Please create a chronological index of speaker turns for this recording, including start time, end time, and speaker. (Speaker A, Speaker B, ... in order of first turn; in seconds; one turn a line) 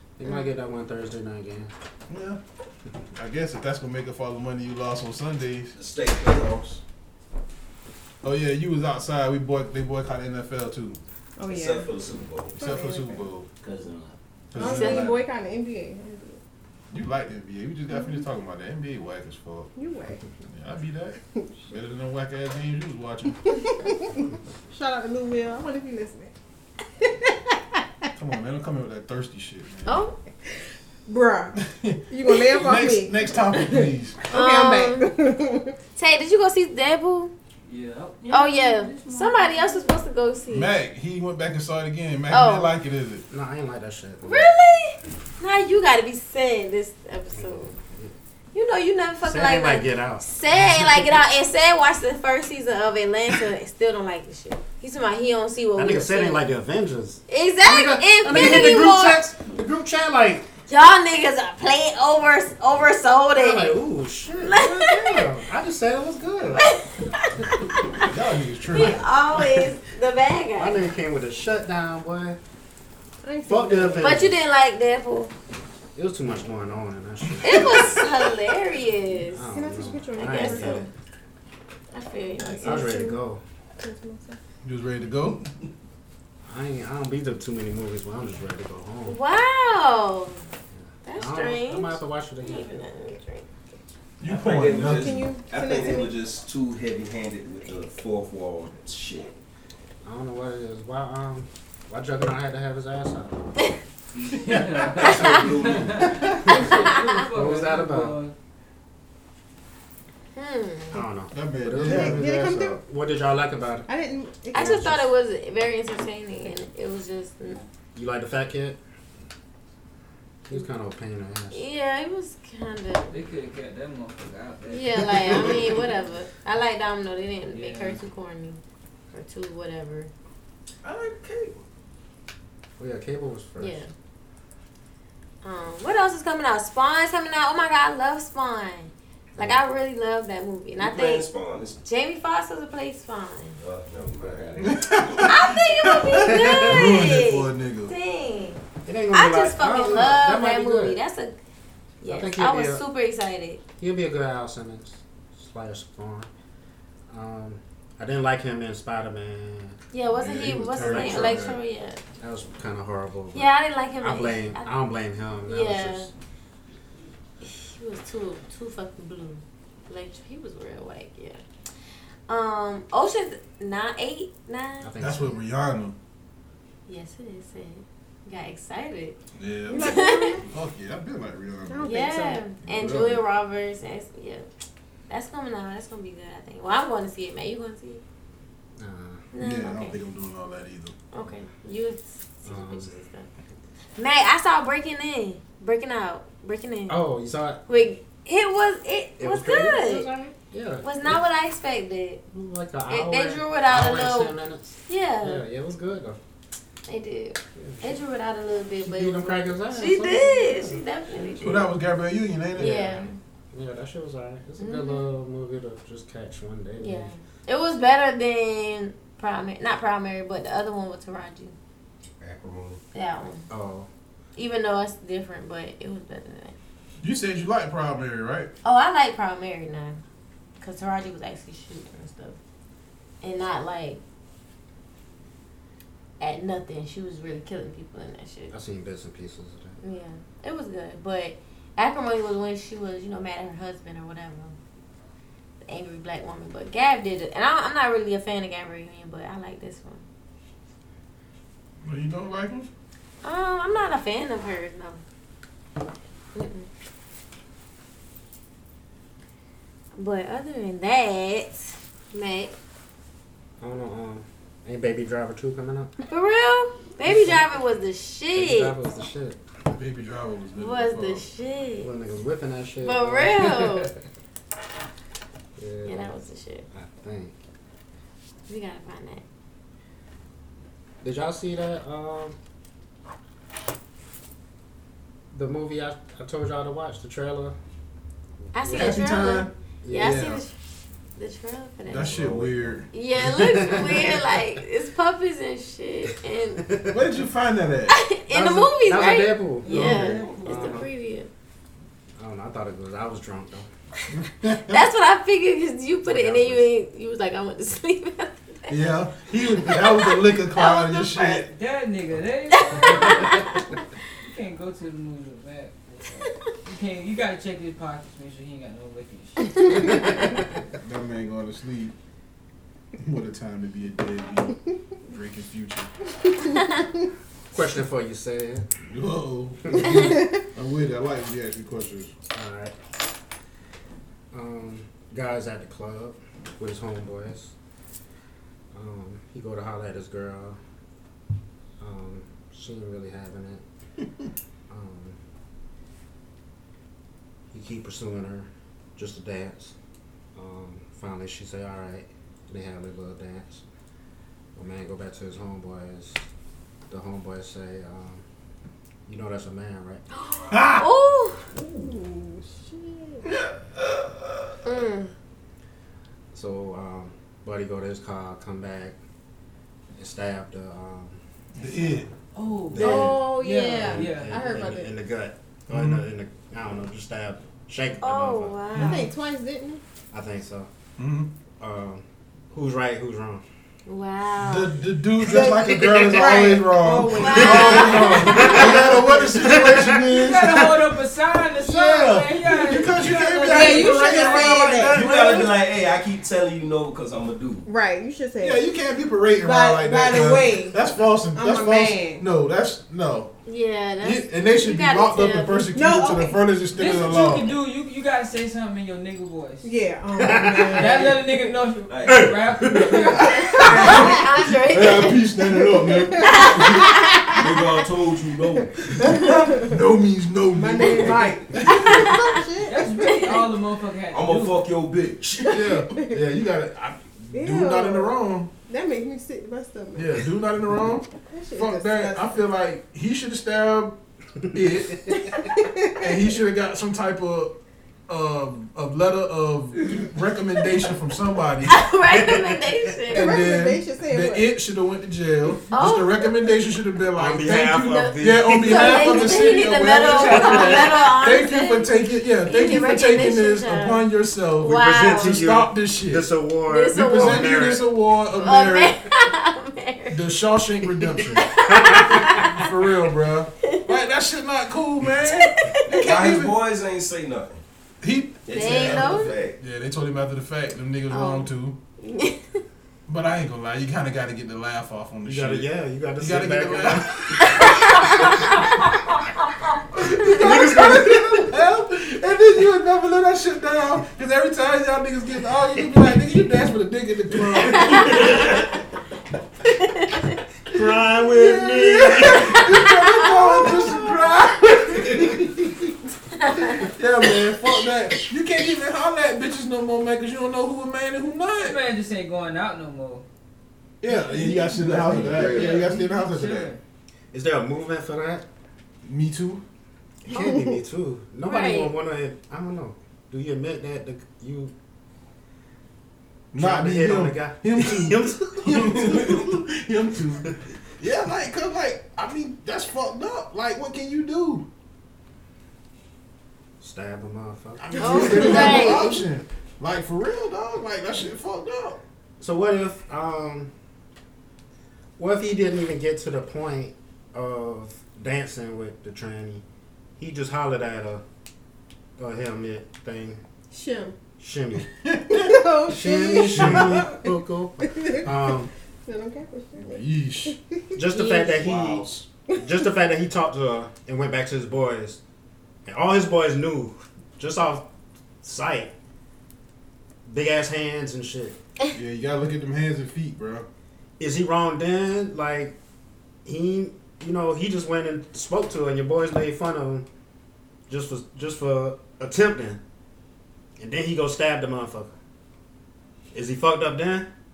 Speaker A: 0.2-1.7
Speaker B: 2.1-2.4
Speaker B: 3.1-5.8
Speaker C: 5.7-6.8
Speaker B: 8.2-11.0
Speaker D: 11.4-11.9
Speaker C: 11.4-12.6
Speaker B: 12.6-13.5
Speaker D: 12.6-13.2
Speaker B: 14.5-15.2
Speaker D: 14.6-16.4
Speaker E: 14.6-15.2
Speaker B: 16.9-19.7
Speaker D: 17.9-18.2
Speaker D: 19.8-20.3
Speaker B: 20.5-23.6
Speaker D: 23.5-26.3
Speaker D: 27.0-28.1
Speaker B: 28.2-30.0
Speaker E: 29.9-30.2
Speaker D: 30.5-31.6
Speaker B: 31.6-34.2
Speaker D: 32.1-35.8
Speaker E: 34.3-35.1
Speaker E: 36.0-37.3
Speaker F: 37.7-40.0
Speaker E: 38.3-40.7
Speaker B: 40.5-43.2
Speaker E: 42.3-42.7
Speaker A: 43.3-44.5
Speaker E: 44.2-47.7
Speaker A: 47.3-48.1
Speaker E: 48.5-56.5
Speaker A: 49.2-51.0
Speaker A: 55.8-60.5
Speaker E: 57.3-59.3
Speaker E: 60.7-63.8
Speaker A: 63.4-66.7
Speaker E: 64.4-65.2
Speaker E: 66.5-68.1
Speaker B: 68.0-69.1
Speaker E: 68.7-70.8
Speaker A: 69.3-69.7
Speaker A: 70.6-72.4
Speaker D: 73.2-74.2
Speaker A: 73.5-74.4
Speaker E: 74.0-75.3
Speaker A: 76.0-78.0
Speaker E: 77.4-79.5
Speaker A: 79.3-80.9
Speaker D: 79.5-80.9
Speaker E: 80.2-80.9
Speaker E: 81.9-83.2
Speaker D: 82.4-83.1
Speaker A: 82.6-83.4
Speaker D: 83.8-84.4
Speaker B: 84.6-85.5
Speaker A: 86.5-89.2
Speaker E: 89.1-90.4
Speaker A: 90.7-92.8
Speaker E: 91.1-93.5
Speaker B: 94.2-95.3
Speaker C: 94.2-99.3
Speaker D: 94.8-96.1
Speaker A: 100.0-103.5
Speaker C: 104.2-106.3
Speaker F: 104.2-108.3
Speaker E: 105.0-105.6
Speaker A: 106.4-108.2
Speaker E: 106.5-107.2
Speaker E: 110.4-111.0
Speaker A: 110.9-113.9
Speaker B: 111.3-112.6
Speaker D: 111.8-112.8
Speaker D: 113.9-114.9
Speaker E: 114.5-117.6
Speaker A: 114.5-115.1
Speaker A: 118.0-118.8
Speaker A: 120.5-121.7
Speaker E: 121.5-123.2
Speaker F: 123.1-125.8
Speaker E: 124.7-130.1
Speaker F: 127.5-128.0
Speaker C: 130.8-131.6
Speaker A: 132.8-133.8
Speaker E: 133.6-133.9
Speaker E: 135.4-141.3
Speaker A: 139.4-139.6
Speaker C: 140.8-141.8
Speaker E: 141.8-143.6
Speaker C: 143.6-145.0
Speaker B: 144.6-147.9
Speaker E: 145.2-151.3
Speaker A: 146.3-146.8
Speaker A: 148.8-151.0
Speaker E: 152.0-153.6
Speaker A: 152.1-152.8
Speaker A: 153.8-156.3
Speaker A: 157.1-159.8
Speaker E: 159.9-162.0
Speaker B: 160.1-161.6
Speaker A: 160.7-161.5
Speaker A: 162.2-166.1
Speaker E: 163.3-164.7
Speaker E: 165.5-166.1
Speaker E: 167.4-171.4
Speaker E: 172.3-174.9
Speaker A: 174.8-175.4
Speaker B: 175.0-176.0
Speaker E: 176.9-179.2
Speaker B: 179.4-182.0
Speaker E: 179.7-180.4
Speaker D: 179.7-180.5
Speaker D: 181.7-182.4
Speaker E: 181.8-184.5
Speaker B: 182.6-183.2
Speaker E: 185.1-188.0
Speaker A: 188.8-189.3
Speaker E: 189.3-190.0
Speaker B: 189.4-190.9
Speaker E: 191.1-193.3
Speaker A: 192.4-192.9
Speaker E: 194.0-197.0
Speaker A: 196.9-197.7
Speaker E: 197.7-200.1
Speaker A: 199.2-201.2
Speaker E: 200.8-202.2
Speaker A: 202.3-206.2
Speaker E: 202.9-204.4
Speaker E: 204.9-205.4
Speaker E: 206.9-211.7
Speaker A: 207.6-208.0
Speaker A: 208.8-211.5
Speaker B: 211.4-213.1
Speaker E: 212.6-213.2
Speaker A: 213.5-217.1
Speaker E: 214.6-215.1
Speaker E: 216.8-221.5
Speaker C: 222.2-222.8
Speaker E: 222.9-223.4
Speaker A: 223.5-223.9
Speaker E: 224.4-226.6
Speaker B: 227.0-228.5
Speaker E: 228.6-230.0
Speaker E: 230.6-232.4
Speaker E: 233.2-234.0
Speaker E: 236.2-238.5
Speaker A: 238.5-239.8
Speaker E: 239.8-244.6
Speaker E: 245.7-250.1
Speaker B: 251.8-252.7
Speaker E: 253.2-255.0
Speaker E: 256.4-256.7
Speaker E: 260.0-262.5
Speaker A: 263.6-265.9
Speaker E: 266.0-268.8
Speaker A: 267.0-267.5
Speaker A: 268.3-269.4
Speaker B: 269.7-271.3
Speaker E: 270.6-271.9
Speaker A: 271.8-273.8
Speaker E: 272.8-273.9
Speaker A: 275.6-276.1
Speaker E: 275.9-276.7
Speaker A: 276.7-277.4
Speaker E: 278.5-279.2
Speaker A: 281.0-282.4
Speaker A: 285.3-287.6
Speaker A: 288.4-289.1
Speaker E: 288.5-290.5
Speaker B: 288.7-290.4
Speaker A: 289.8-290.3
Speaker E: 291.2-292.2
Speaker B: 291.9-292.9
Speaker C: 292.0-292.8
Speaker E: 292.9-296.8
Speaker A: 293.2-294.2
Speaker A: 296.7-296.9
Speaker B: 296.9-298.0
Speaker E: 297.9-301.3
Speaker A: 298.3-300.9
Speaker B: 299.7-300.2
Speaker F: 299.8-300.8
Speaker C: 300.2-300.5
Speaker A: 302.2-303.7
Speaker B: 304.1-304.9
Speaker E: 304.6-308.8
Speaker A: 306.0-306.7
Speaker B: 308.7-311.5
Speaker E: 309.6-311.4
Speaker F: 311.4-313.6
Speaker E: 312.5-313.9
Speaker F: 314.2-320.2
Speaker E: 319.6-319.8
Speaker A: 319.7-320.1
Speaker B: 320.8-321.9
Speaker B: 323.0-325.9
Speaker A: 327.5-328.7
Speaker B: 328.9-332.1
Speaker A: 332.3-332.8
Speaker A: 334.3-337.5
Speaker A: 338.7-340.6
Speaker A: 341.8-343.6
Speaker A: 344.7-345.2
Speaker A: 347.5-349.7
Speaker A: 350.4-353.6
Speaker A: 354.6-356.2
Speaker A: 356.9-358.2
Speaker A: 359.1-360.0
Speaker E: 360.1-361.4
Speaker B: 360.5-360.9
Speaker D: 361.7-363.3
Speaker E: 364.6-365.1
Speaker A: 366.3-368.9
Speaker A: 370.0-371.2
Speaker F: 371.6-374.6
Speaker B: 371.6-372.1
Speaker A: 372.7-373.3
Speaker D: 372.8-374.9
Speaker E: 372.9-374.1
Speaker A: 373.8-378.6
Speaker B: 375.7-376.1
Speaker E: 378.0-379.1
Speaker B: 378.7-379.1
Speaker D: 378.8-379.8
Speaker A: 380.1-380.7
Speaker B: 381.0-381.3
Speaker A: 381.6-383.4
Speaker E: 383.9-384.8
Speaker B: 384.4-390.8
Speaker D: 385.2-389.5
Speaker E: 387.1-388.3
Speaker A: 387.3-390.0
Speaker F: 389.9-395.4
Speaker B: 391.6-395.2
Speaker D: 393.4-395.1
Speaker C: 394.5-397.7
Speaker D: 397.6-398.6
Speaker B: 398.4-403.3
Speaker D: 399.4-402.2
Speaker E: 403.5-405.7
Speaker B: 404.0-407.6
Speaker D: 405.7-406.4
Speaker F: 406.7-409.7
Speaker D: 409.6-411.6
Speaker A: 410.2-410.8
Speaker F: 410.5-414.1
Speaker C: 411.9-412.4
Speaker A: 412.1-413.0
Speaker E: 413.2-415.2
Speaker D: 413.6-414.1
Speaker B: 413.7-414.0
Speaker B: 414.7-417.0
Speaker D: 415.5-417.4
Speaker E: 416.2-417.5
Speaker C: 417.4-418.9
Speaker D: 418.8-419.8
Speaker B: 419.0-421.9
Speaker D: 420.5-423.4
Speaker E: 421.6-422.3
Speaker F: 422.7-424.6
Speaker E: 423.1-423.4
Speaker C: 424.1-425.6
Speaker D: 425.4-426.2
Speaker B: 425.5-428.5
Speaker D: 427.3-428.2
Speaker D: 428.7-430.3
Speaker B: 429.9-434.0
Speaker D: 431.3-432.3
Speaker B: 434.5-435.3
Speaker D: 435.4-436.1
Speaker B: 436.0-437.6
Speaker B: 438.1-441.8
Speaker E: 441.7-443.4
Speaker A: 442.1-442.9
Speaker B: 443.1-456.3
Speaker D: 443.1-444.5
Speaker E: 445.7-446.4
Speaker A: 447.2-449.6
Speaker E: 448.5-451.9
Speaker E: 452.4-454.0
Speaker E: 454.6-455.4
Speaker A: 454.6-457.9
Speaker E: 456.7-460.2
Speaker B: 456.9-459.0
Speaker B: 460.1-466.6
Speaker E: 461.4-462.7
Speaker A: 461.6-462.4
Speaker E: 465.2-466.1
Speaker C: 465.9-467.6
Speaker B: 468.0-471.8
Speaker C: 468.5-469.6
Speaker E: 468.5-469.4
Speaker E: 471.1-471.5
Speaker E: 472.1-472.4
Speaker B: 473.1-478.3
Speaker A: 475.2-477.8
Speaker E: 477.4-478.9
Speaker B: 479.9-488.6
Speaker A: 480.3-481.4
Speaker E: 487.7-488.2
Speaker E: 489.7-490.4
Speaker A: 490.7-492.6
Speaker B: 491.4-495.9
Speaker E: 492.4-494.0
Speaker E: 496.4-496.9
Speaker B: 496.8-501.8
Speaker F: 501.6-503.2
Speaker B: 504.0-506.7
Speaker C: 504.4-505.9
Speaker F: 505.2-506.8
Speaker A: 507.3-508.4
Speaker B: 509.0-509.6
Speaker A: 510.3-514.7
Speaker D: 510.3-510.6
Speaker E: 511.4-511.9
Speaker B: 516.5-524.6
Speaker A: 516.5-519.5
Speaker A: 526.8-528.9
Speaker B: 527.8-532.0
Speaker E: 528.0-529.2
Speaker A: 532.4-533.7
Speaker A: 535.2-539.6
Speaker A: 540.2-541.2
Speaker A: 542.2-543.4
Speaker D: 543.7-544.1
Speaker A: 544.4-544.9
Speaker B: 544.9-547.1
Speaker D: 545.3-547.3
Speaker A: 545.9-548.7
Speaker D: 547.9-548.2
Speaker D: 549.0-551.0
Speaker B: 549.8-550.6
Speaker A: 551.0-555.2
Speaker B: 551.1-552.3
Speaker A: 555.9-557.9
Speaker A: 558.4-558.9
Speaker A: 560.3-561.6
Speaker B: 561.9-563.7
Speaker A: 564.2-565.8
Speaker A: 566.5-570.1
Speaker A: 570.9-572.8
Speaker A: 573.8-575.1
Speaker A: 576.3-577.3